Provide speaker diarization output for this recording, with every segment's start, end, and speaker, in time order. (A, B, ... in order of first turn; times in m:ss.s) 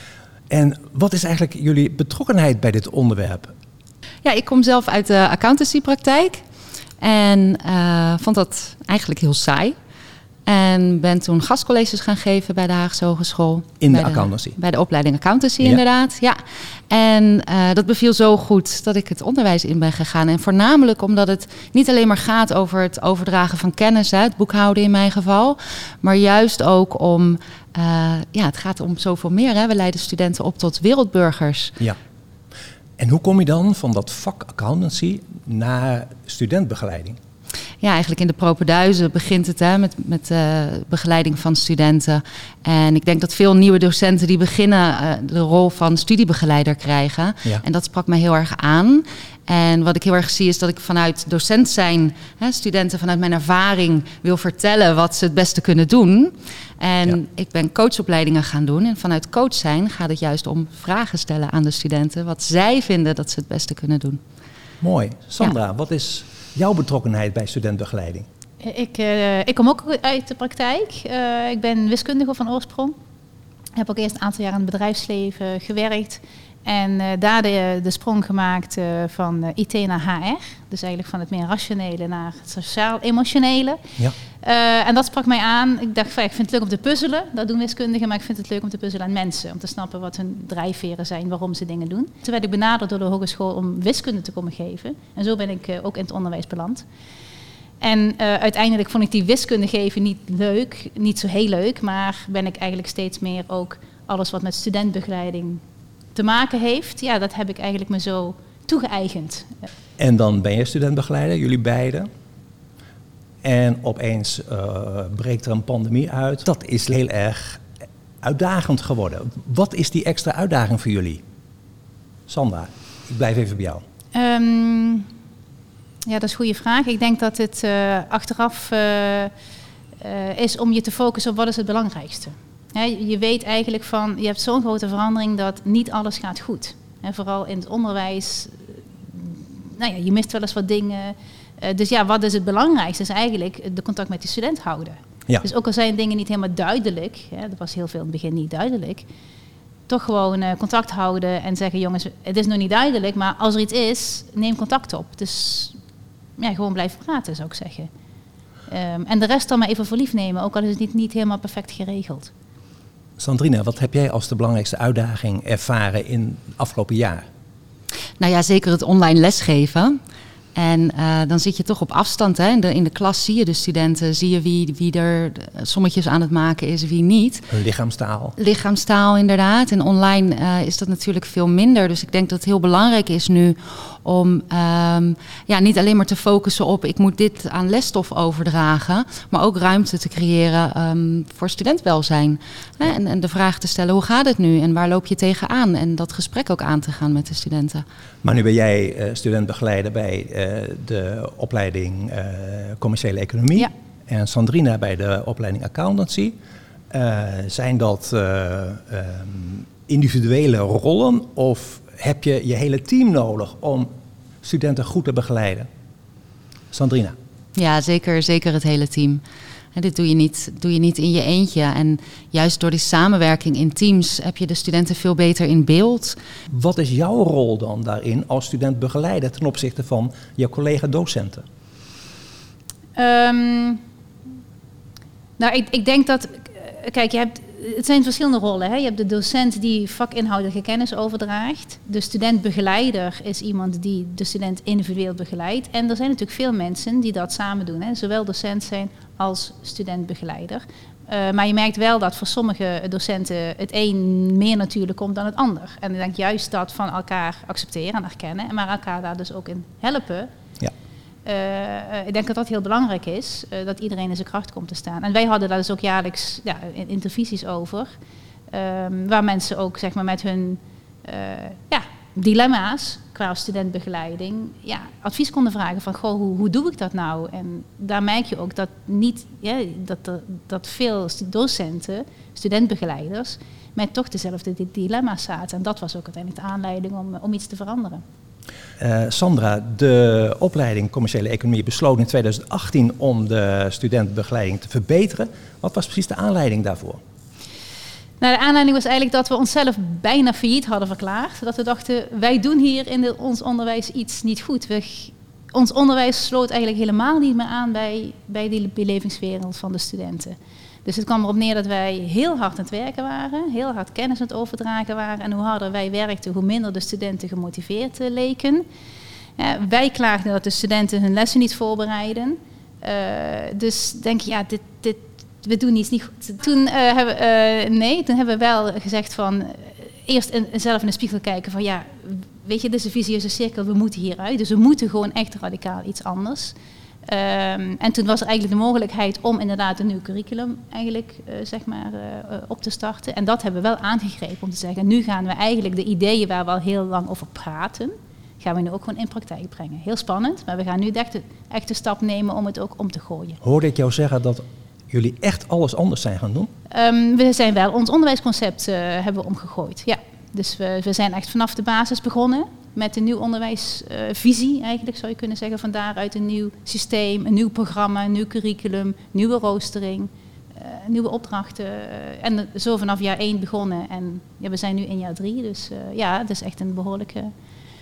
0:00.5-0:03.5 A
0:04.2-0:06.4 B
0:07.0-0:09.7 B
0:10.5-0:16.4 B
0:13.8-0:14.6 A
0:16.9-0:31.8 B
0:33.0-0:37.2 A
0:37.8-1:04.2 B
1:04.8-1:08.2 A
1:08.6-1:12.9 C
1:13.8-1:23.8 C
1:24.4-1:36.8 C
1:37.8-1:45.6 C
1:46.1-1:49.5 C
1:50.0-1:52.1 A
1:53.4-1:57.6 A
1:58.2-2:01.2 A
2:02.3-2:03.8 A
2:04.1-2:05.1 C
2:06.0-2:09.3 C
2:10.0-2:29.0 C
2:29.9-2:35.8 C
2:36.4-2:37.9 C
2:38.7-2:42.3 C
2:43.2-2:47.3 A
2:48.2-2:50.0 B
2:50.6-2:57.5 B
2:57.5-2:58.3 A
2:58.4-3:17.8 B
3:18.2-3:26.3 A
3:26.9-3:33.9 A
3:34.4-3:35.7 A
3:36.7-3:37.1 A
3:37.6-3:39.2 B
3:39.7-3:46.2 B
3:46.5-3:51.4 A
3:53.0-3:53.8 C
3:55.4-4:20.3 C
4:21.2-4:27.9 C
4:28.5-4:48.0 C
4:48.8-4:57.0 A
4:58.2-5:18.6 C
5:19.4-5:36.5 C
5:37.1-5:53.4 C
5:53.4-5:56.5 A
5:56.7-6:17.3 C